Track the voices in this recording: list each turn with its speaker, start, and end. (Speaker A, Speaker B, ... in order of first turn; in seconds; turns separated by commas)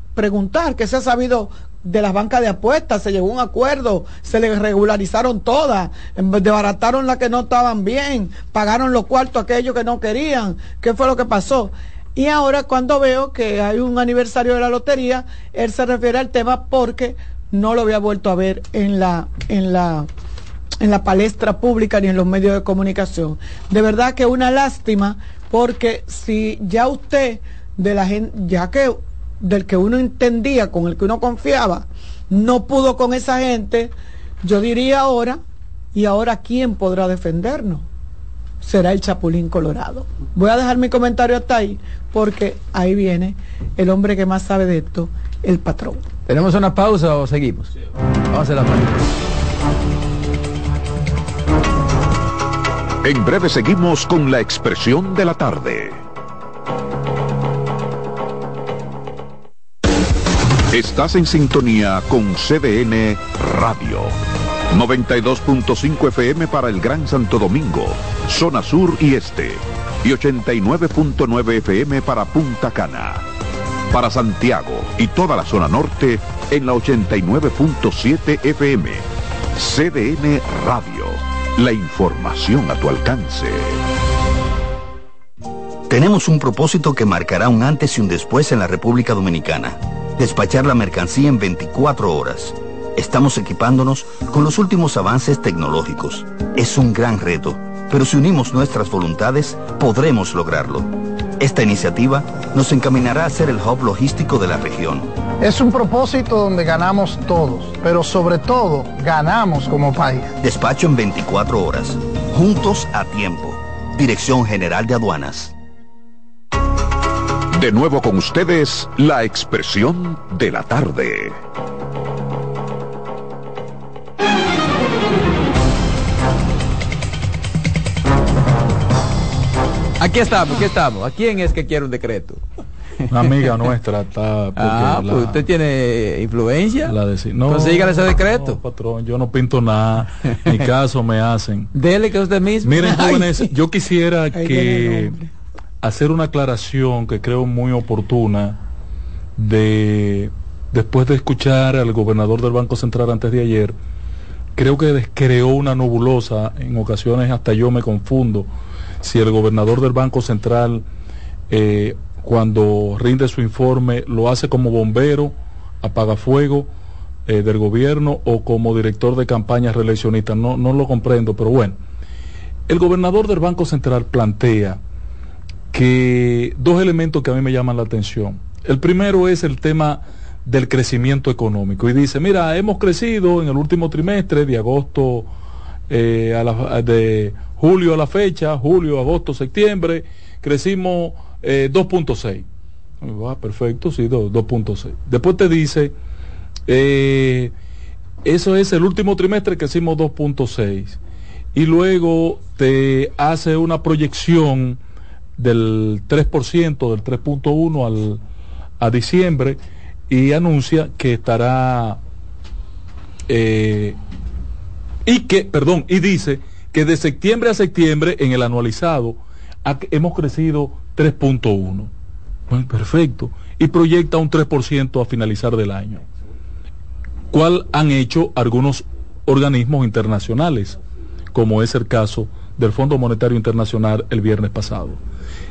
Speaker A: 0.1-20.1, Speaker A: 20.8-35.4, Speaker A: 35.9-37.8, Speaker A: 38.6-46.0, Speaker B: 46.2-47.7, Speaker B: 48.3-49.0, Speaker C: 53.0-56.0, Speaker C: 60.7-64.2, Speaker C: 64.7-73.2, Speaker C: 73.9-79.0, Speaker C: 79.5-83.8, Speaker D: 85.9-105.1, Speaker E: 105.4-110.3, Speaker D: 110.4-115.5, Speaker C: 117.5-121.4, Speaker B: 130.0-132.4, Speaker F: 133.1-135.4, Speaker B: 134.6-136.9, Speaker F: 136.8-141.7, Speaker B: 137.5-138.6, Speaker B: 141.7-143.3, Speaker F: 142.6-145.2, Speaker A: 142.9-143.3, Speaker A: 144.3-145.3, Speaker F: 145.8-148.6, Speaker F: 149.4-153.7, Speaker F: 154.6-158.5, Speaker F: 159.0-160.8, Speaker F: 161.5-166.7, Speaker F: 167.3-171.8, Speaker F: 172.7-174.8, Speaker F: 175.7-185.3, Speaker F: 185.9-192.4, Speaker F: 193.0-195.9, Speaker F: 196.7-197.5, Speaker F: 198.2-201.0, Speaker F: 201.5-204.8, Speaker F: 205.4-208.2, Speaker F: 208.8-212.0, Speaker F: 213.3-214.0, Speaker F: 215.1-221.9, Speaker F: 222.5-226.0, Speaker F: 227.3-230.8, Speaker F: 231.3-235.0